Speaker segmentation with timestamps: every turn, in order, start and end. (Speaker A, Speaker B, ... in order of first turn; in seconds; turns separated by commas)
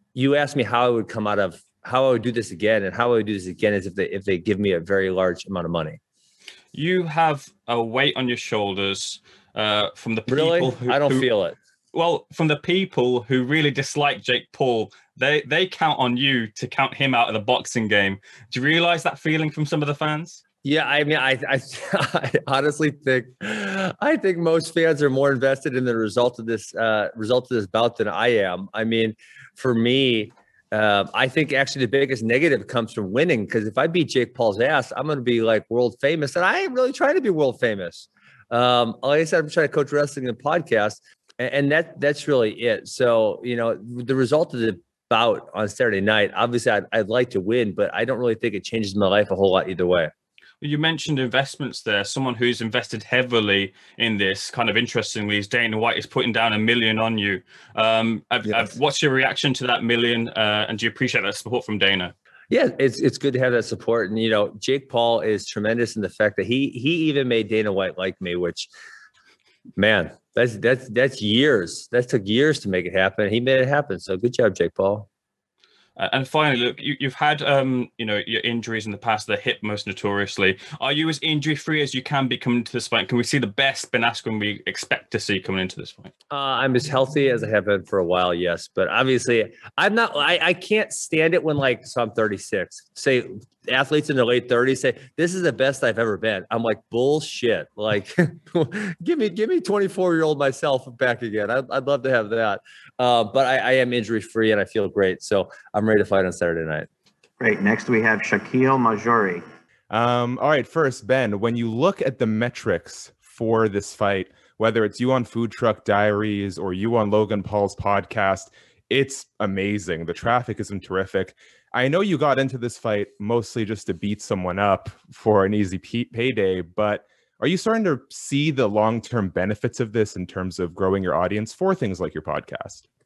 Speaker A: 0.1-6.0, Speaker B: 6.7-11.3, Speaker A: 10.3-11.6, Speaker B: 11.9-20.4, Speaker A: 20.6-50.1, Speaker B: 50.6-62.1, Speaker A: 58.5-58.7, Speaker A: 62.5-68.7, Speaker A: 69.8-75.1, Speaker B: 76.0-86.1, Speaker A: 86.3-106.9, Speaker C: 107.4-109.4, Speaker D: 109.9-132.8